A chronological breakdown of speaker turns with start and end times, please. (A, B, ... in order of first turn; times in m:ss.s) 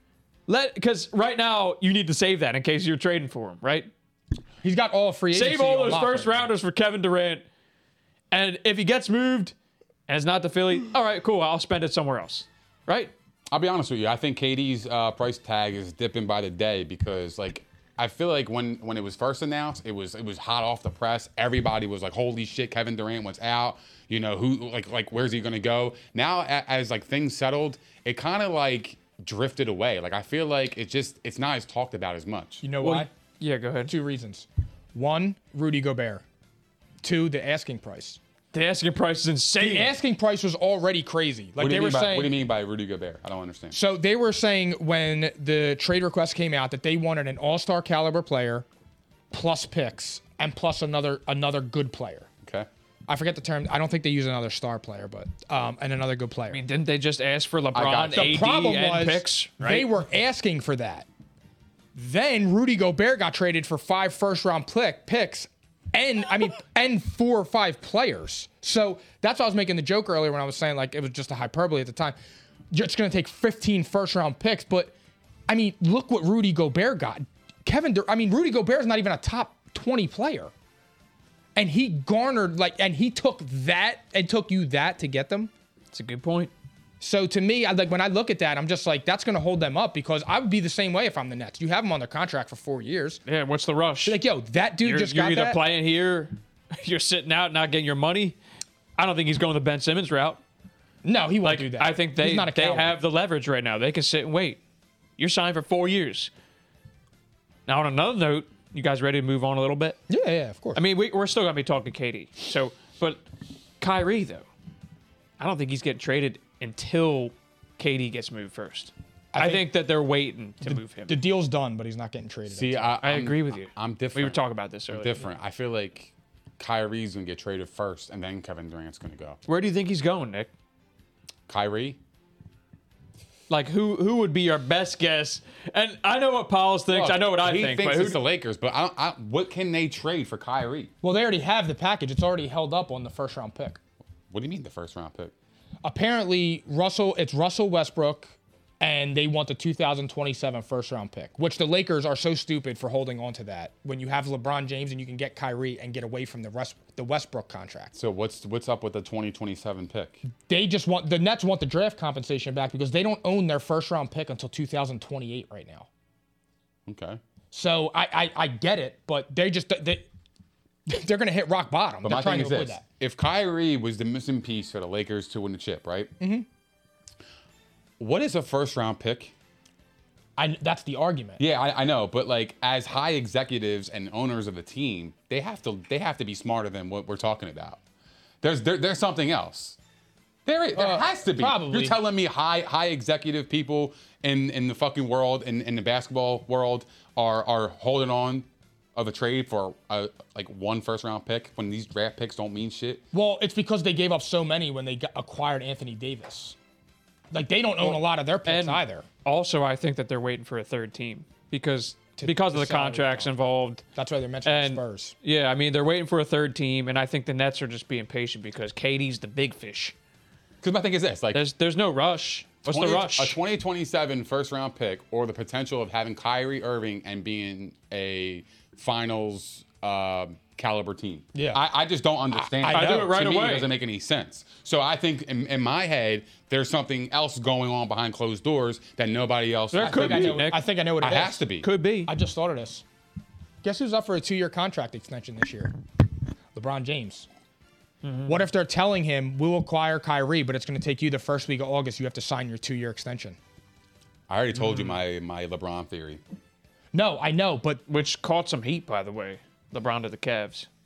0:00.5-0:03.9 A
0:04.6-0:06.4 B
0:05.3-0:07.4 A
0:08.3-0:09.6 A
0:10.1-0:13.1 A
0:13.5-0:32.6 C
0:32.6-0:33.1 B
0:32.8-0:33.9 A
0:33.9-0:36.2 B
0:37.0-0:38.2 B
0:38.5-0:39.9 A
0:39.6-0:42.4 B
0:41.6-0:43.8 C
0:43.7-0:48.7 B
0:49.3-0:52.3 B
0:52.4-0:52.7 C
0:53.1-0:56.6 B
0:56.5-0:59.9 A
0:57.7-0:58.5 C
0:58.1-1:01.1 B
1:02.0-1:12.2 B
1:12.7-1:14.9 B
1:15.5-1:20.5 B
1:21.6-1:25.5 B
1:25.9-1:26.5 A
1:27.0-1:33.2 B
1:33.3-1:34.2 A
1:34.0-1:35.6 B
1:34.8-1:38.4 A
1:39.0-1:40.4 A
1:41.0-1:43.0 B
1:41.4-1:44.6 A
1:45.2-1:46.3 A
1:47.7-1:50.0 A
1:50.1-1:50.8 B
1:50.8-1:53.2 A
1:53.8-1:54.5 A
1:55.4-2:01.2 A
1:59.3-1:59.7 B
2:00.6-2:02.9 B
2:02.5-2:09.4 C
2:03.0-2:05.3 A
2:09.5-2:10.5 A
2:11.5-2:12.0 C
2:13.5-2:18.2 A
2:16.9-2:20.9 C
2:21.0-2:23.8 B
2:24.3-2:25.3 C
2:25.8-2:37.9 B
2:38.0-2:40.2 C
2:40.4-2:45.9 B
2:46.9-2:47.2 C
2:47.5-2:50.1 B
2:50.9-2:52.8 B
2:52.0-2:56.1 C
2:56.2-2:56.5 B
2:58.0-2:59.3 C
3:00.4-3:01.4 B
3:01.4-3:07.8 C
3:08.4-3:09.8 C
3:10.5-3:23.0 C
3:10.8-3:12.0 B
3:23.1-3:26.6 B
3:27.3-3:29.1 B
3:27.8-3:33.8 A
3:32.2-3:33.3 B
3:34.0-3:35.2 B
3:34.4-3:40.0 A
3:40.6-3:41.5 C
3:41.3-3:43.4 A
3:42.6-4:01.7 C
3:51.3-3:51.6 B
3:52.5-3:53.2 B
3:52.6-3:53.7 A
3:59.7-4:00.6 A
3:59.8-4:01.4 B
4:01.6-4:02.1 A
4:02.1-4:02.8 B
4:03.6-4:05.7 B
4:06.6-4:07.3 B
4:08.0-4:08.4 A
4:08.3-4:13.4 B
4:14.3-4:16.2 C
4:14.6-4:15.0 A
4:16.9-4:17.8 B
4:17.9-4:20.7 A